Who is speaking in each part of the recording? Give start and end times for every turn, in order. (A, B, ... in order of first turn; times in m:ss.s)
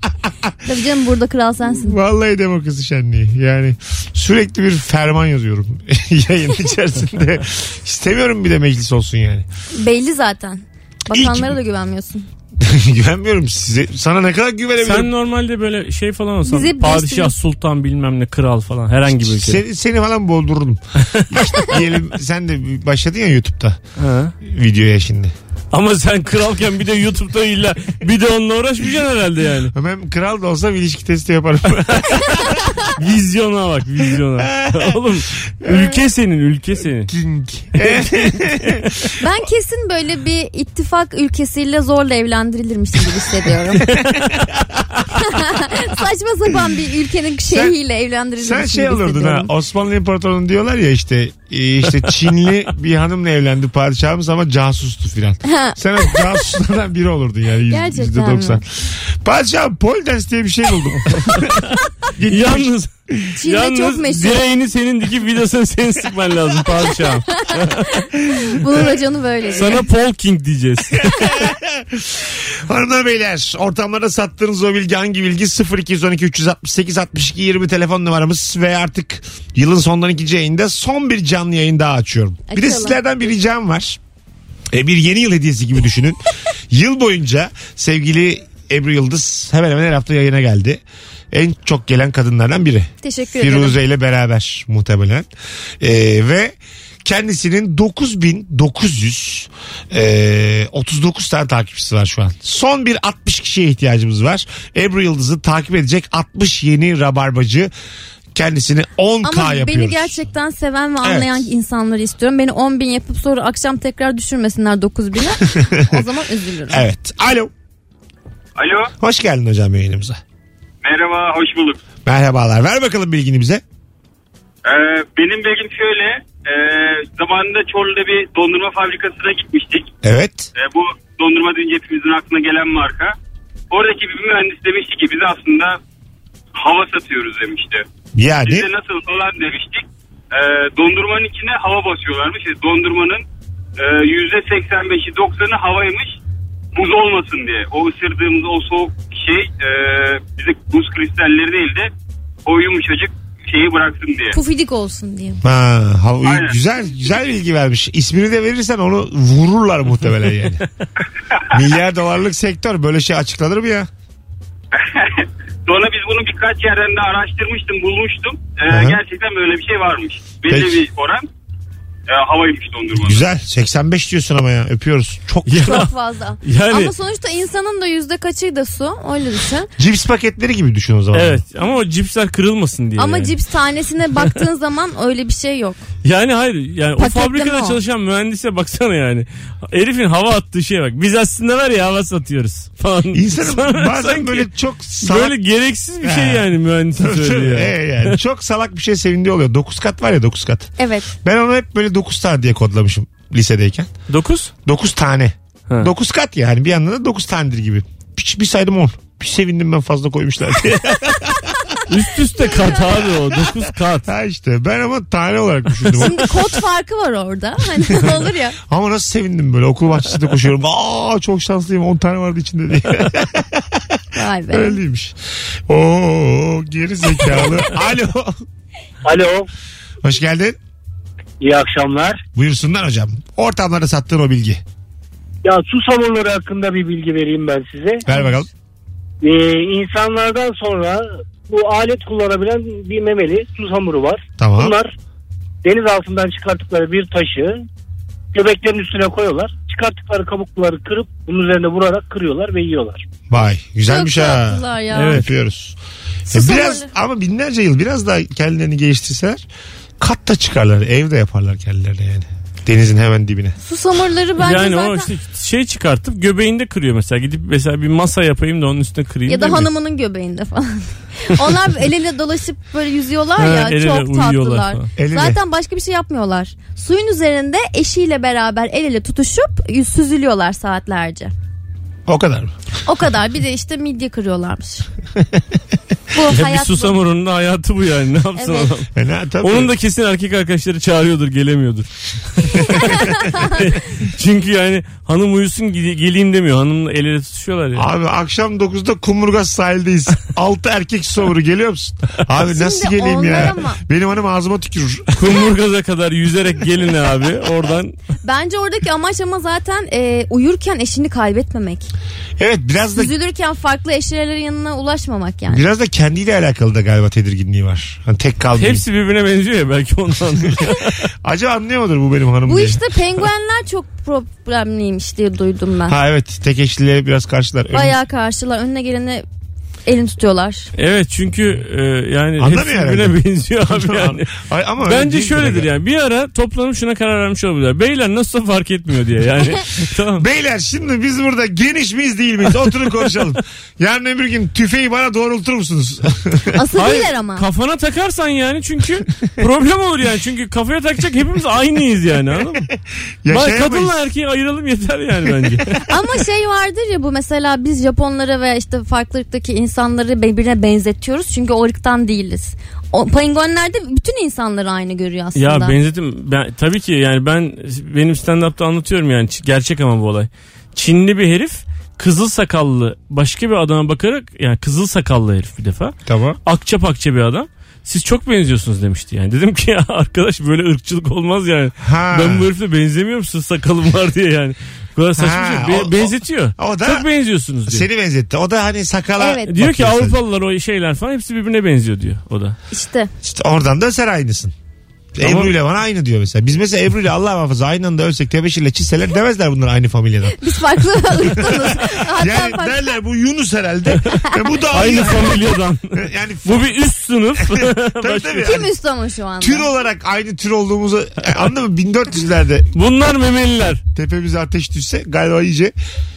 0:00.2-0:00.5 A
0:00.6-0:02.0 B
0:01.7-0:09.5 A
0:09.8-0:12.3 B
0:11.1-0:11.6 A
0:12.6-0:15.1 A
0:14.8-0:19.6 C
0:16.4-0:17.3 B
0:19.1-0:23.8 A
0:24.0-0:24.4 C
0:24.4-0:25.3 A
0:25.7-0:29.7 C
0:29.7-0:32.9 A
0:32.9-0:37.1 C
0:34.4-0:35.0 A
0:35.6-0:36.0 A
0:37.1-0:38.8 A
0:37.8-0:39.0 C
0:39.2-0:44.0 B
0:43.9-0:44.8 A
0:45.1-0:49.5 B
0:47.5-0:47.8 A
0:48.4-1:03.3 A
0:55.4-0:56.4 B
0:57.7-0:58.6 B
1:02.3-1:07.9 C
1:03.4-1:04.4 B
1:07.3-1:09.8 B
1:09.5-1:11.4 C
1:11.0-1:24.0 A
1:22.5-1:23.0 B
1:24.7-1:26.2 A
1:26.7-1:35.3 A
1:33.0-1:33.8 B
1:35.8-1:47.7 A
1:48.3-1:50.2 A
1:49.2-1:56.8 B
1:51.0-1:51.5 A
1:55.4-1:56.0 A
1:56.7-1:57.5 A
1:58.6-1:58.9 D
1:59.0-2:00.2 A
2:00.8-2:01.8 D
2:02.0-2:03.6 A
2:04.6-2:09.9 D
2:10.0-2:10.5 A
2:10.6-2:13.2 D
2:13.7-2:15.8 D
2:16.5-2:17.8 D
2:18.2-2:18.7 A
2:18.4-2:23.2 D
2:23.8-2:26.2 D
2:26.7-2:31.9 D
2:32.4-2:34.4 D
2:34.3-2:35.4 B
2:35.4-2:40.6 A
2:36.2-2:36.6 D
2:41.5-2:43.9 A
2:44.7-2:51.3 D
2:48.7-2:49.0 A
2:50.5-2:50.8 A
2:52.1-2:53.2 D
2:53.0-2:55.9 A
2:55.5-2:55.9 C
2:55.6-2:59.7 B
2:56.4-2:56.9 C
2:59.8-3:01.4 A
3:01.1-3:03.3 C
3:03.0-3:05.8 B
3:06.0-3:14.5 C
3:07.0-3:07.8 B
3:13.1-3:15.4 A
3:15.0-3:18.2 C
3:16.0-3:23.9 A
3:20.8-3:21.1 B
3:24.1-3:24.5 C
3:24.7-3:31.8 A
3:31.9-3:34.1 C
3:32.4-3:32.8 B
3:33.4-3:36.4 A
3:36.0-3:38.6 B
3:37.9-3:45.2 A
3:44.2-3:44.8 B
3:45.7-3:48.4 A
3:49.0-3:49.5 E
3:50.0-3:50.6 A
3:51.4-3:52.2 E
3:52.4-3:54.6 A
3:55.4-3:58.0 E
3:58.1-3:58.5 A
3:58.1-3:58.4 B
3:59.2-4:04.9 E
4:04.4-4:04.8 A
4:05.6-4:07.6 E
4:08.3-4:13.0 E
4:13.3-4:15.8 A
4:13.9-4:15.2 B
4:14.9-4:15.3 C
4:16.3-4:16.9 B
4:16.3-4:19.4 A
4:20.0-4:23.6 A
4:23.6-4:25.1 B
4:24.4-4:29.7 C
4:29.3-4:41.3 B
4:33.4-4:34.9 C
4:35.0-4:35.4 A
4:42.1-4:42.5 A
4:42.9-4:44.9 B
4:46.1-4:47.0 B
4:46.3-4:48.9 C
4:48.4-4:48.7 B
4:49.0-4:49.8 A
4:49.4-4:57.9 C
4:52.7-4:53.6 B
4:57.8-5:05.4 A
5:02.5-5:03.8 B
5:05.2-5:08.0 C
5:08.2-5:11.9 B
5:12.4-5:13.1 A
5:13.0-5:15.6 B
5:15.5-5:18.8 A
5:18.6-5:21.0 C
5:21.2-5:22.9 A
5:22.5-5:26.0 B
5:25.9-5:28.0 A
5:27.7-5:29.2 B
5:29.9-5:30.7 B
5:30.8-5:34.3 C
5:32.4-5:35.7 A
5:34.8-5:40.2 C
5:40.2-5:46.6 A
5:46.5-5:47.4 B
5:46.8-5:52.7 C
5:53.2-5:54.0 A
5:53.3-5:55.8 C
5:55.3-5:55.8 A
5:55.9-6:05.8 B
6:05.4-6:27.8 C
6:16.1-6:16.4 A
6:21.8-6:22.5 A
6:25.1-6:27.1 A
6:27.7-6:30.2 A
6:29.2-6:29.5 B
6:29.5-6:32.6 C
6:32.7-6:33.1 B
6:33.2-6:34.5 A
6:35.2-6:46.7 A
6:35.2-6:35.5 C
6:40.3-6:42.8 B
6:44.7-6:48.6 C
6:47.4-6:48.7 A
6:48.4-6:49.7 B
6:49.4-6:52.7 A
6:52.7-6:53.8 C
6:54.0-6:55.7 A